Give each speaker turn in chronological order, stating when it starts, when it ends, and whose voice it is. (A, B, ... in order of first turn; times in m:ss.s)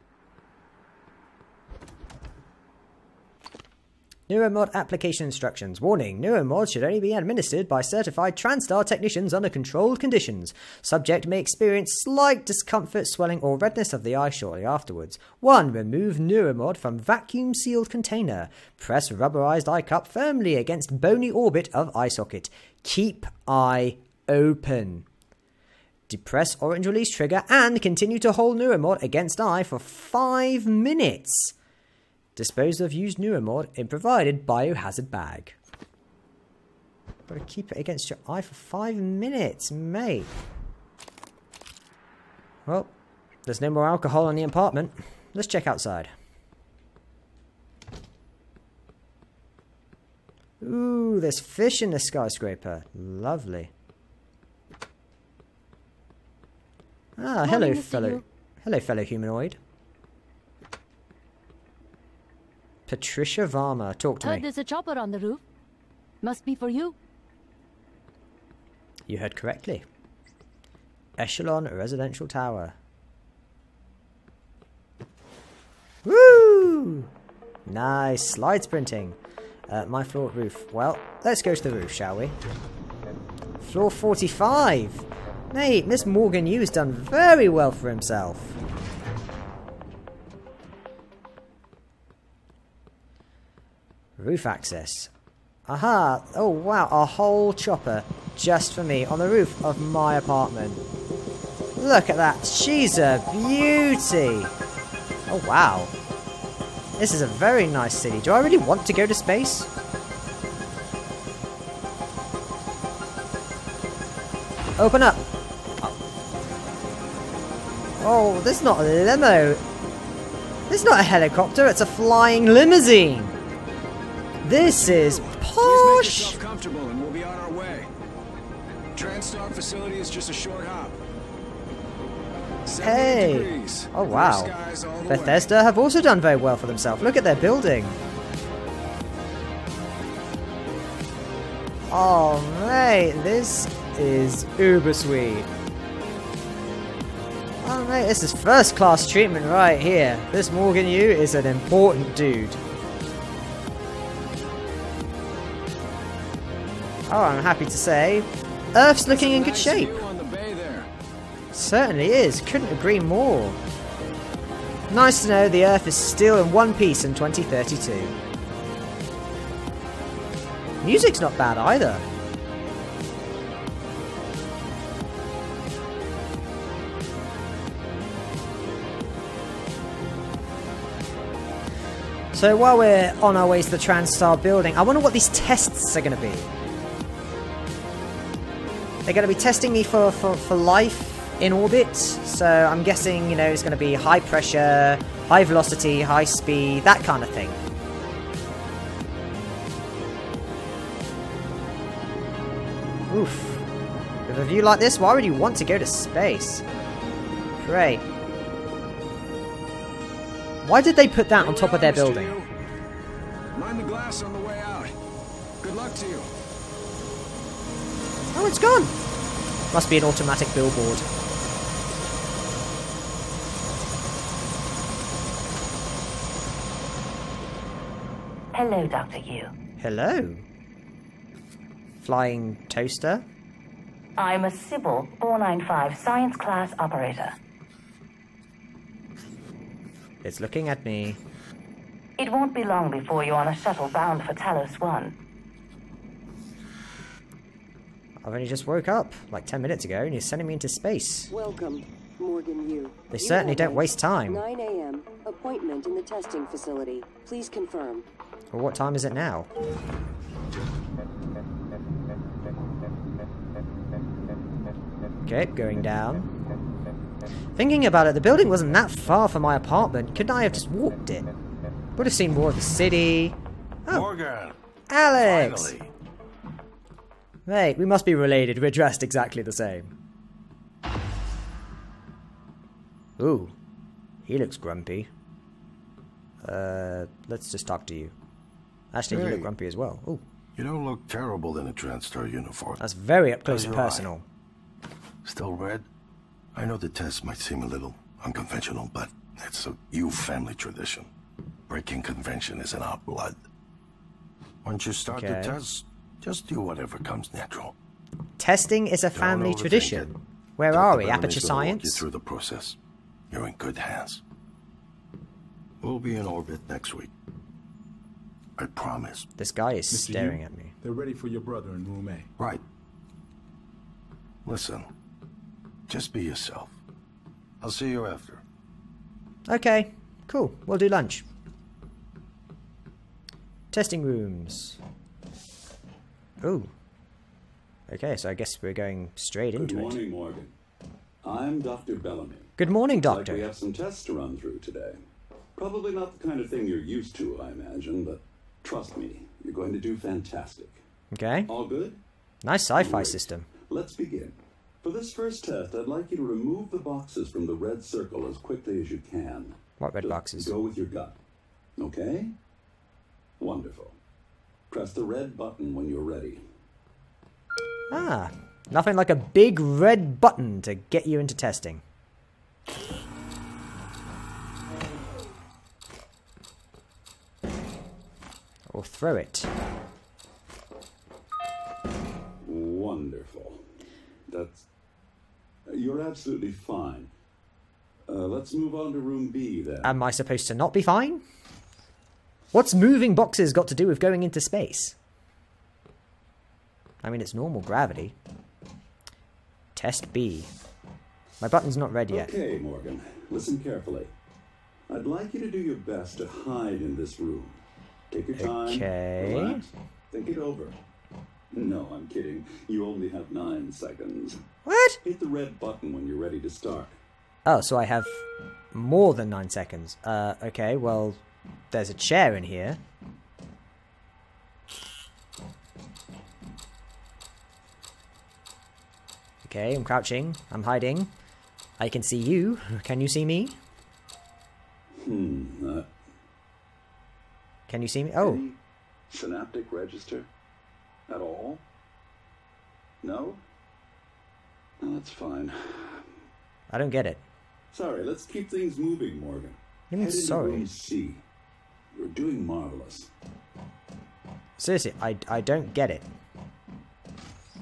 0:04.3-0:25.0 A
0:26.1-0:31.5 A
0:32.4-0:35.6 A
0:37.3-0:40.3 A
0:42.7-0:42.9 A
0:43.5-0:46.1 A
0:50.6-0:53.7 A
0:57.2-0:59.6 A
0:57.5-0:58.0 B
0:57.5-0:58.2 C
1:02.9-1:04.5 A
1:04.2-1:05.4 C
1:06.3-1:06.9 C
1:09.1-1:09.8 A
1:11.2-1:12.7 A
1:16.0-1:17.1 A
1:17.7-1:19.2 A
1:19.7-1:22.3 A
1:23.6-1:28.6 A
1:34.2-1:35.1 A
1:35.7-1:40.8 A
1:41.8-1:44.5 A
1:45.3-1:45.9 A
1:47.0-1:49.7 A
1:54.8-1:55.3 A
1:58.0-1:59.6 A
2:00.7-2:03.3 A
2:04.4-2:06.4 A
2:04.7-2:07.9 B
2:08.9-2:11.0 B
2:12.6-2:15.5 B
2:12.7-2:18.0 A
2:21.9-2:25.5 A
2:27.6-2:32.6 A
2:37.1-2:40.0 A
2:39.0-2:40.9 B
2:41.5-2:43.6 A
2:44.9-2:48.2 A
2:50.8-2:52.0 A
3:02.3-3:06.5 A
3:09.0-3:17.6 A
3:23.1-3:23.7 A
3:24.3-3:26.6 A
3:27.6-3:28.0 A
3:30.6-3:32.4 A
3:31.3-3:32.5 B
3:33.5-3:34.9 B
3:35.6-3:36.3 B
3:38.3-3:39.0 A
3:39.7-3:41.0 A
3:48.5-3:49.5 D
3:49.8-3:50.4 A
3:52.0-3:53.2 A
3:54.2-3:57.4 D
4:00.2-4:01.2 A
4:02.2-4:05.2 D
4:08.2-4:11.3 A
4:11.3-4:18.1 E
4:13.1-4:14.4 A
4:18.5-4:19.5 A
4:25.2-4:26.3 A
4:27.6-4:31.3 A
4:32.0-4:34.1 A
4:33.9-4:34.6 F
4:34.9-4:35.8 A
4:35.2-4:35.9 F
4:37.5-4:39.9 A
4:43.2-4:43.5 A
4:44.2-4:45.1 A
4:46.4-4:48.1 A
4:48.9-4:50.2 A
4:49.1-4:49.5 F
4:50.6-4:52.8 F
4:52.8-4:54.2 A
4:53.5-4:54.1 F
4:55.2-4:55.8 F
4:56.5-5:01.1 F
5:01.7-5:03.4 F
5:04.6-5:07.7 F
5:05.1-5:05.6 A
5:08.4-5:12.0 A
5:09.1-5:10.1 F
5:10.7-5:12.8 F
5:13.3-5:14.2 F
5:15.8-5:17.1 F
5:18.6-5:19.2 F
5:19.4-5:20.7 A
5:19.9-5:22.3 G
5:22.4-5:22.6 F
5:24.4-5:24.9 F
5:25.9-5:26.7 F
5:27.6-5:28.4 F
5:29.5-5:31.2 A
5:33.7-5:34.8 A
5:36.4-5:36.7 A
5:37.9-5:40.0 A
5:39.6-5:40.5 H
5:41.2-5:45.0 H
5:42.6-5:43.5 A
5:45.6-5:50.8 H
5:51.1-5:51.5 A
5:51.5-5:52.0 H
5:52.4-5:53.5 A
5:52.8-6:01.2 H
5:59.8-6:00.5 A
6:01.8-6:02.3 H
6:03.4-6:04.0 H
6:04.7-6:06.4 H
6:07.9-6:11.8 A
6:18.7-6:19.5 A
6:22.4-6:23.6 H
6:24.3-6:24.6 H
6:25.7-6:27.1 H
6:28.1-6:29.9 H
6:29.8-6:31.2 A
6:32.5-6:35.0 A
6:37.0-6:38.2 A
6:39.7-6:40.5 A
6:41.4-6:42.3 A
6:42.1-6:44.1 H
6:44.9-6:50.8 H
6:48.4-6:49.6 A
6:51.5-6:54.4 H
6:54.6-6:55.0 A
6:55.0-6:57.0 H
6:57.4-7:01.2 A
7:01.7-7:02.8 A
7:09.4-7:11.1 A
7:11.8-7:13.6 A
7:15.0-7:15.9 H
7:17.7-7:18.4 A
7:18.2-7:18.6 H
7:19.1-7:20.3 H
7:21.1-7:21.6 H
7:23.0-7:23.4 H
7:24.8-7:26.1 H
7:26.7-7:27.2 A
7:27.7-7:31.2 H
7:29.9-7:30.7 A
7:31.9-7:33.1 H
7:34.6-7:36.0 A